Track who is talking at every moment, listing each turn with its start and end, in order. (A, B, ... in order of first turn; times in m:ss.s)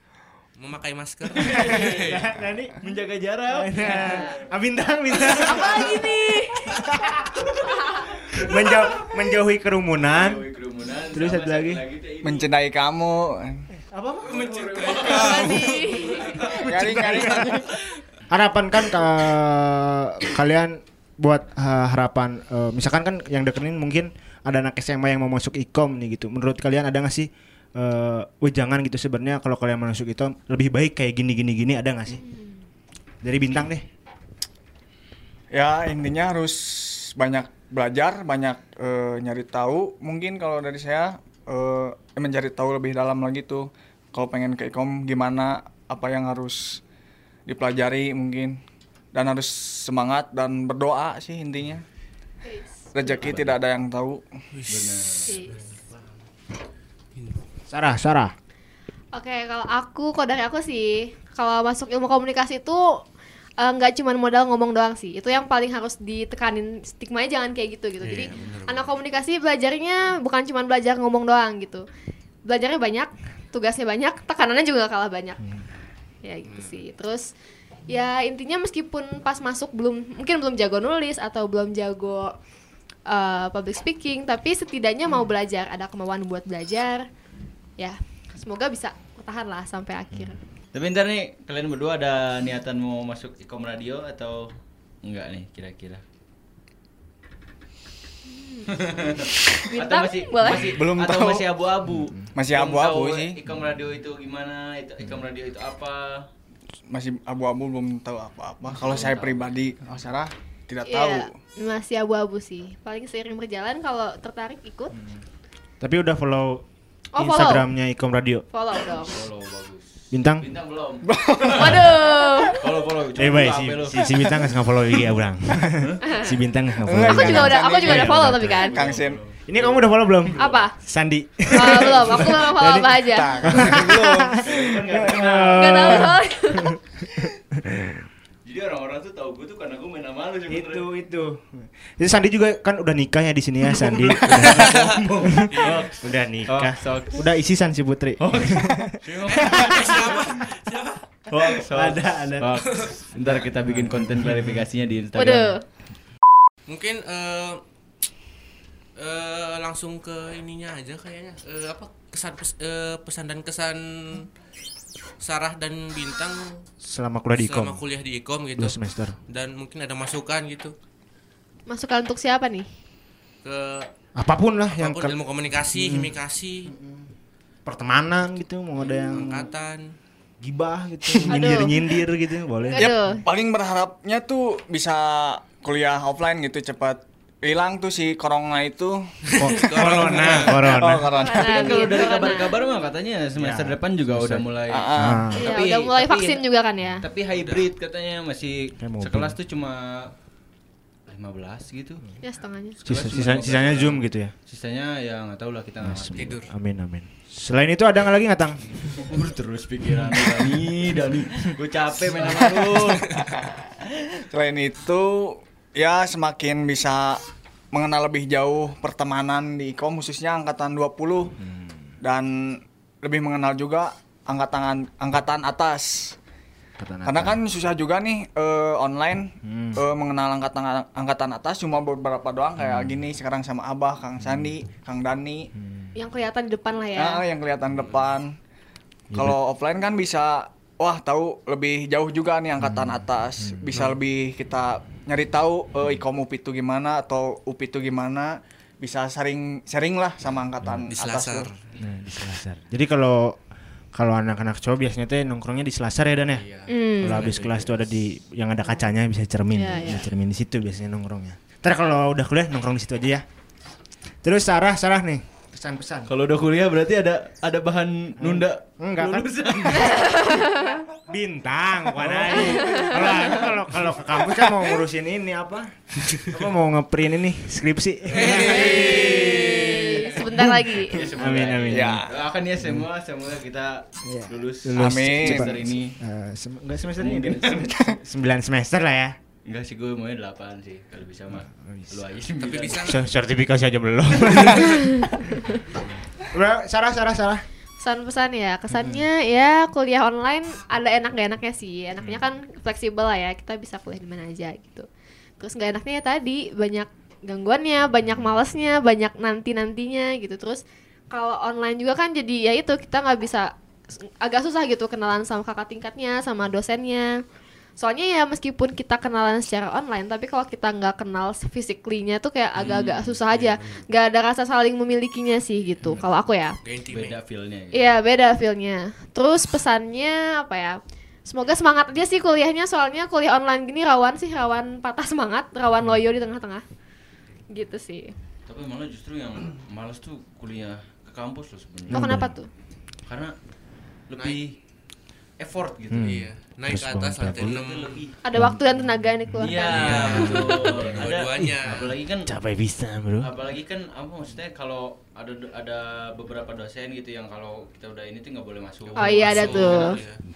0:00.6-0:02.3 A
0:01.3-0:04.4 B
0:01.5-0:03.0 C
0:03.5-0:06.1 C
0:03.9-0:04.3 D
0:05.2-0:06.4 B
0:05.3-0:08.1 D
0:06.6-0:07.5 C
0:08.1-0:09.1 B
0:08.3-0:10.4 C
0:10.0-0:12.5 B
0:11.1-0:11.8 C
0:12.2-0:13.6 E
0:13.9-0:15.0 C
0:14.2-0:17.2 B
0:14.8-0:16.6 A
0:15.1-0:16.2 D
0:16.4-0:17.7 E
0:16.7-0:17.6 C
0:18.3-0:32.2 C
0:33.2-0:33.8 C
0:35.5-0:46.8 E
0:47.4-0:48.6 E
0:49.1-0:51.8 E
0:52.4-0:53.3 D
0:52.9-0:54.2 E
0:54.5-0:56.0 A
0:54.7-0:55.4 B
0:55.2-0:55.6 D
0:57.1-0:57.4 A
0:57.7-0:58.3 C
0:59.1-1:03.0 D
1:03.6-1:11.8 D
1:08.0-1:08.9 A
1:12.4-1:15.4 D
1:16.2-1:17.3 D
1:16.4-1:16.8 A
1:17.9-1:22.3 D
1:23.0-1:27.1 D
1:27.8-1:30.4 D
1:30.7-1:34.5 B
1:35.0-1:36.0 B
1:38.3-1:40.8 D
1:38.7-1:46.3 B
1:40.5-1:41.5 E
1:41.9-1:42.3 C
1:42.3-1:43.4 E
1:46.9-1:51.4 E
1:48.7-1:49.7 B
1:50.8-1:55.0 D
1:55.8-1:56.6 C
1:57.1-1:57.7 D
1:57.2-1:58.4 C
1:58.5-1:59.2 D
1:58.9-2:04.5 B
2:00.1-2:00.5 C
2:01.1-2:02.0 E
2:01.5-2:02.6 D
2:03.1-2:08.7 C
2:06.0-2:06.3 D
2:06.8-2:09.2 E
2:06.9-2:08.8 D
2:08.2-2:10.6 B
2:09.4-2:18.0 C
2:10.4-2:10.7 D
2:11.5-2:13.9 D
2:13.0-2:14.7 E
2:14.4-2:16.1 B
2:15.5-2:16.8 D
2:18.4-2:20.9 B
2:20.5-2:29.9 C
2:23.9-2:27.2 B
2:24.2-2:25.9 A
2:28.2-2:30.4 B
2:29.3-2:31.0 A
2:31.3-2:35.6 B
2:31.7-2:32.4 C
2:32.6-2:33.3 A
2:33.6-2:34.6 C
2:35.1-2:35.6 D
2:36.7-2:37.6 A
2:39.0-2:44.3 A
2:45.2-2:46.6 A
2:46.8-2:47.8 C
2:47.3-2:50.7 A
2:48.6-2:49.2 C
2:51.7-2:52.7 D
2:53.4-2:53.9 A
2:54.2-2:55.2 C
2:54.7-2:56.7 A
2:55.7-2:56.1 C
2:56.6-2:57.1 C
2:57.6-2:59.5 C
2:58.9-2:59.9 A
3:00.4-3:03.2 C
3:01.3-3:01.8 D
3:02.7-3:03.2 D
3:02.8-3:12.1 E
3:09.3-3:10.7 A
3:09.4-3:11.1 C
3:11.1-3:12.8 D
3:11.3-3:16.4 B
3:13.3-3:15.5 C
3:14.7-3:15.3 E
3:15.3-3:17.0 D
3:17.0-3:20.1 B
3:17.2-3:17.6 A
3:18.8-3:19.4 C
3:21.1-3:22.0 B
3:22.2-3:22.8 D
3:22.8-3:26.4 B
3:22.8-3:24.3 C
3:25.8-3:28.7 C
3:26.1-3:26.5 A
3:28.8-3:33.2 B
3:32.9-3:33.2 A
3:33.2-3:37.2 E
3:37.7-3:41.4 E
3:41.4-3:41.9 C
3:42.0-3:46.2 E
3:46.8-3:47.4 C
3:47.0-3:55.5 E
3:49.4-3:49.8 C
3:52.6-3:53.0 C
3:54.2-3:54.5 C
3:55.6-3:55.9 C
3:55.9-3:57.2 D
3:57.0-3:58.3 E
3:59.1-3:59.4 C
3:59.1-4:11.5 E
4:02.6-4:04.0 C
4:10.8-4:11.6 A
4:11.8-4:13.4 C
4:13.9-4:16.4 C
4:16.3-4:17.9 A
4:16.7-4:17.2 D
4:17.0-4:23.2 C
4:19.5-4:20.0 D
4:24.2-4:26.1 C
4:26.1-4:30.4 B
4:28.2-4:30.0 C
4:29.8-4:30.8 D
4:31.0-4:38.9 C
4:32.0-4:33.6 B
4:32.4-4:32.9 D
4:38.1-4:46.0 B
4:38.2-4:39.4 A
4:38.3-4:41.0 D
4:40.2-4:42.1 C
4:41.7-4:42.1 E
4:42.6-4:42.9 C
4:44.0-4:49.2 C
4:44.8-4:45.6 E
4:46.9-4:47.8 B
4:47.6-4:47.9 E
4:49.4-4:52.9 B
4:52.4-4:53.0 A
4:52.8-4:55.5 C
4:54.6-4:55.4 D
4:56.2-4:57.4 C
4:57.8-5:04.9 D
4:58.7-4:59.0 C
5:05.4-5:17.2 D
5:17.8-5:26.6 D
5:22.6-5:23.9 A
5:26.6-5:27.2 A
5:26.9-5:27.9 B
5:27.7-5:36.6 D
5:37.5-5:38.1 D
5:38.4-5:42.2 B
5:41.9-5:42.3 C
5:41.9-5:42.5 D
5:43.0-5:43.3 B
5:44.1-5:44.6 B
5:45.4-5:46.2 B
5:45.9-5:47.6 C
5:46.0-5:48.0 A
5:47.4-5:48.2 B
5:48.2-5:50.5 D
5:48.3-5:48.6 C
5:49.4-5:52.3 B
5:49.6-5:51.9 A
5:51.4-5:53.3 C
5:53.2-6:00.0 B
5:58.9-6:00.2 A
5:59.0-6:00.0 D